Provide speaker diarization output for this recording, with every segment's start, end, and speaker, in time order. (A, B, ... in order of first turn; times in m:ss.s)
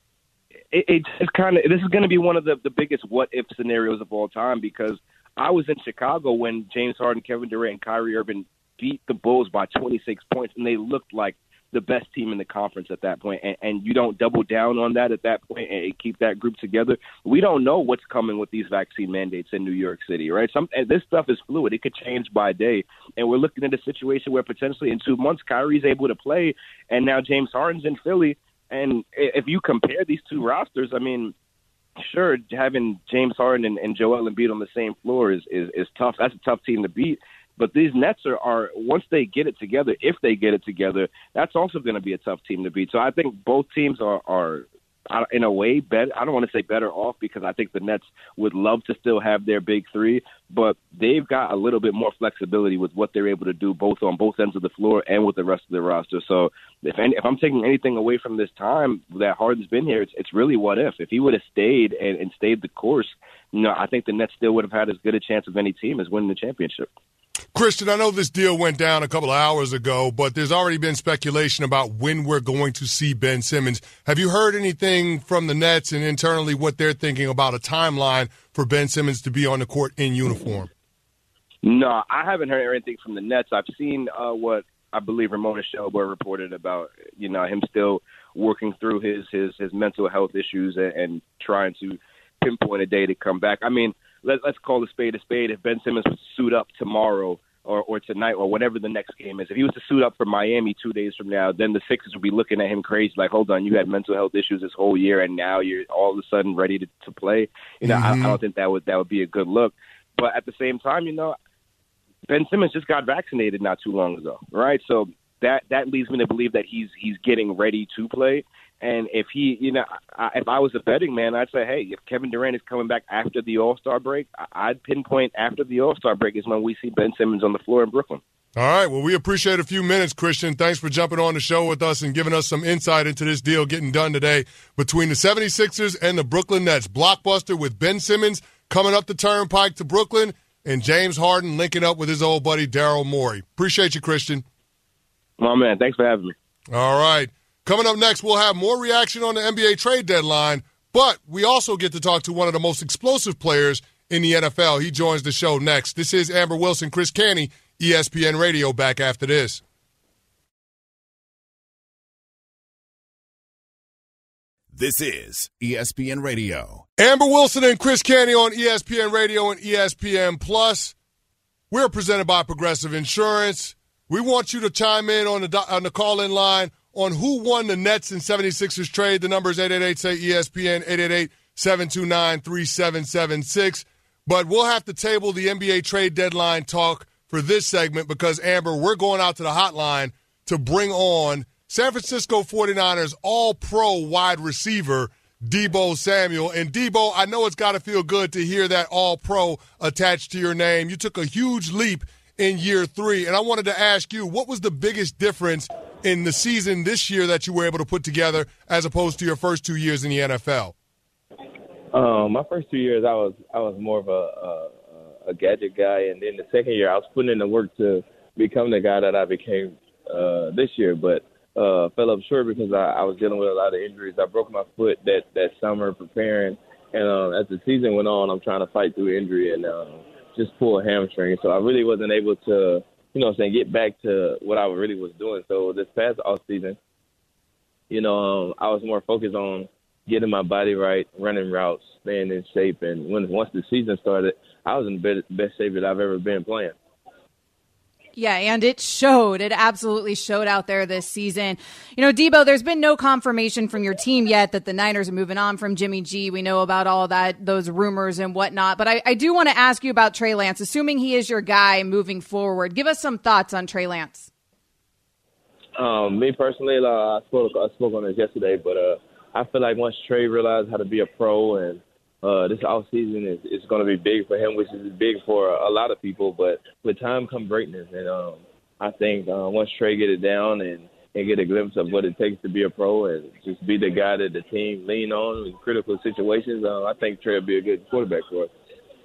0:00.7-0:31.3 A
0:32.0-1:06.9 A
1:07.5-1:20.7 B
1:21.6-1:51.4 A
1:47.8-1:48.4 B
1:52.3-2:08.2 A
2:08.6-2:24.4 B
2:25.4-2:26.3 A
2:26.7-2:39.6 B
2:44.7-2:46.8 C
2:47.0-2:50.9 B
2:51.7-3:30.7 B
3:31.9-3:56.8 D
3:57.9-4:06.7 D
4:08.2-4:24.3 E
4:25.8-4:48.5 D